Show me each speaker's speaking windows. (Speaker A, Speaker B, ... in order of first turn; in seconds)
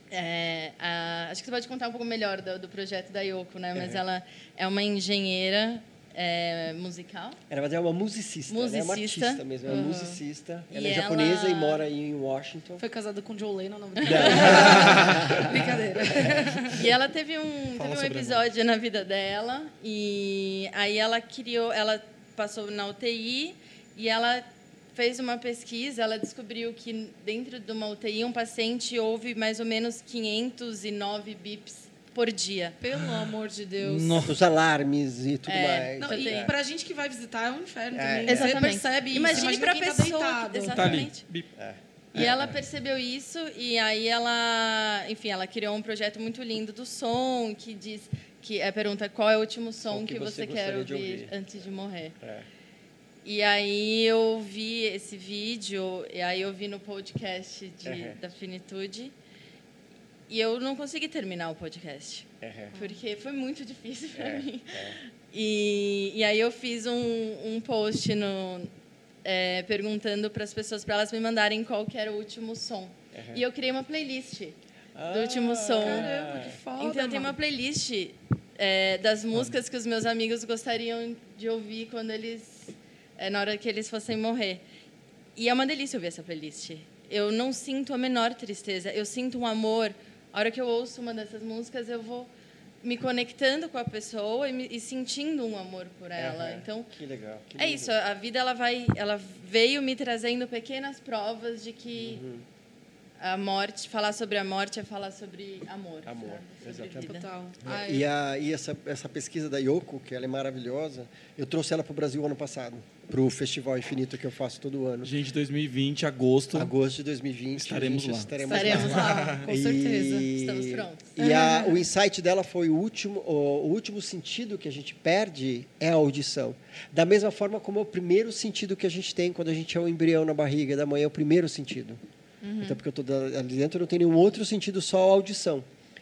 Speaker A: 0.1-7.4, 8.5-9.4, 10.7-11.8, 14.0-32.8, 35.5-36.5, 38.3-41.2, 42.1-52.2, 53.2-59.1, 60.3-68.7, 69.2-74.6, 75.1-84.6, 85.4-92.3, 92.8-96.9, 97.6-102.2, 103.2-107.3, 118.5-119.3, 120.3-121.1, 132.4-132.8
Speaker B: 3.8-4.0, 7.5-12.8, 14.0-16.7, 34.2-36.5, 37.9-38.8, 41.6-42.6, 49.8-51.3, 52.2-52.5, 57.9-58.2, 62.4-62.7, 64.2-65.0, 73.1-73.4, 75.0-76.5, 96.2-97.9, 102.0-102.4, 106.0-115.1, 116.5-132.0, 132.6-135.7
Speaker C: 9.7-10.2, 12.8-16.8, 32.8-34.3, 36.0-40.8, 62.7-63.0, 75.8-77.3, 107.0-108.1, 118.4-120.3, 121.2-121.8
Speaker D: 14.6-15.4, 17.8-18.5, 33.0-33.2, 33.8-34.4, 40.7-41.5, 115.0-116.7, 117.6-119.5